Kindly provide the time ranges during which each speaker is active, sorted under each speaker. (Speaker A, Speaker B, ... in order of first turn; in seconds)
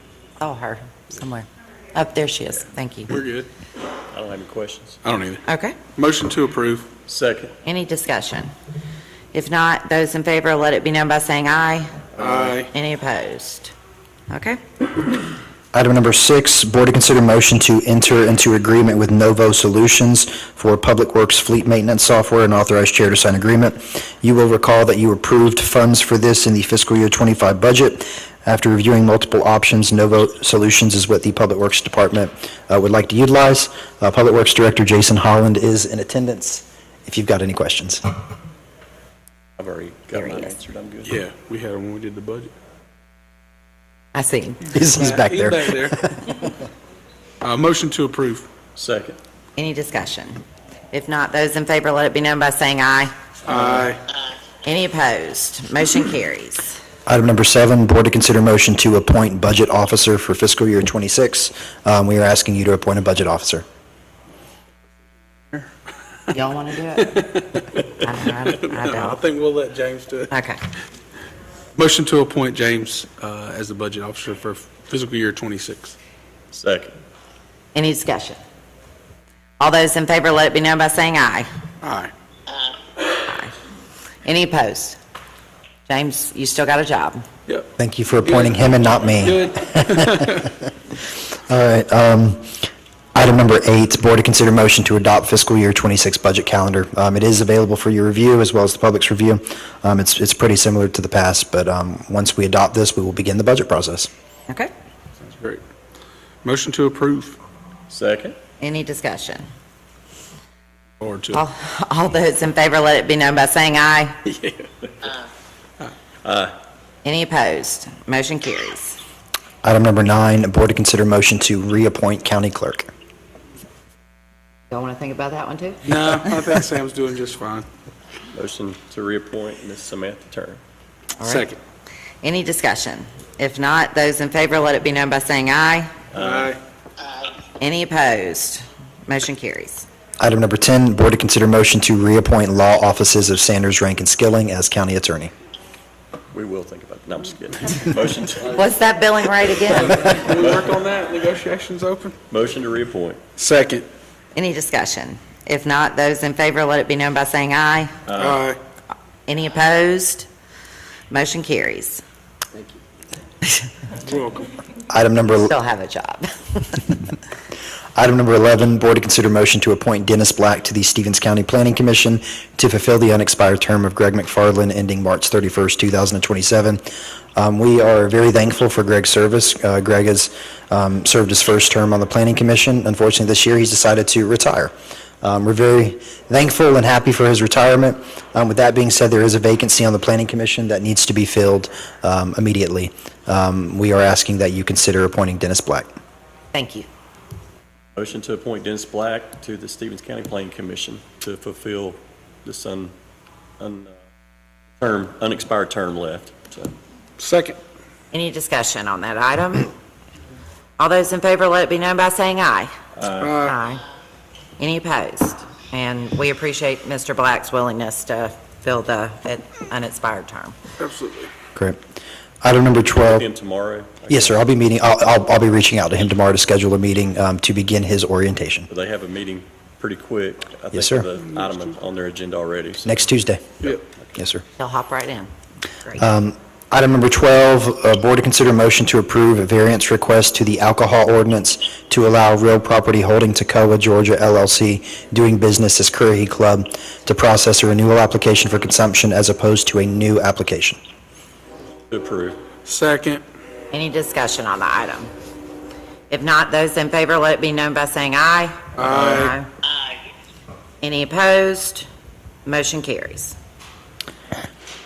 Speaker A: 0.4-3.1, 5.5-5.8, 7.6-8.5, 9.3-12.0, 12.7-13.7, 14.3-14.6, 40.2-40.5, 44.1-44.6, 49.5-53.1, 54.6-56.7, 66.3-67.3, 68.0-69.2, 70.3-70.6, 77.7-78.4, 79.6-81.5, 83.2-83.5, 84.2-85.0, 85.9-87.2, 108.6-109.4, 111.3-114.2, 117.0-119.0, 124.7-125.8, 131.2-131.5, 132.2-135.9, 137.6-139.8, 148.5-150.3, 154.3-157.9, 159.3-160.3, 161.1-162.0, 165.4-166.9, 196.5-196.9, 208.1-209.7, 210.8-212.7, 213.4-213.8, 214.6-220.5, 234.6-235.3, 253.7-255.1, 256.1-259.4, 260.8-261.9, 262.4-263.4
Speaker B: 3.1-3.5, 5.0-6.9, 12.2-12.7, 41.0-42.5, 44.9-46.1, 47.4-48.5, 53.5-54.0, 67.0-67.8, 68.5-70.3, 71.8-76.0, 81.8-82.1, 88.2-90.5, 105.2-105.6, 106.4-107.4, 111.0-111.4, 125.8-127.7, 131.2-131.6, 136.2-136.6, 149.7-152.2, 153.4-153.8, 158.2-158.6, 164.1-164.5, 207.2-207.6, 213.2-213.6, 220.8-221.3, 252.6-253.2, 258.8-259.3
Speaker C: 4.1-5.0, 7.1-7.5, 12.2-12.5, 39.6-41.1, 48.8-49.2, 76.5-76.9, 107.9-108.3, 114.2-115.1, 116.2-116.5, 128.3-130.6, 136.1-136.5, 146.3-148.6, 152.3-153.2, 158.1-158.4, 197.9-202.9, 203.6-203.9, 204.8-206.7, 212.9-213.3, 223.0-224.4, 228.7-233.0, 233.6-234.0, 251.9-252.4
Speaker D: 15.7-38.0, 44.7-46.3, 57.1-63.6, 87.8-90.7, 91.4-104.1, 119.6-122.9, 140.2-145.3, 164.9-165.5, 167.9-176.8, 177.3-195.9, 222.4-223.2, 224.1-228.7, 230.7-231.1, 232.8-233.6, 234.1-234.4, 236.0-250.8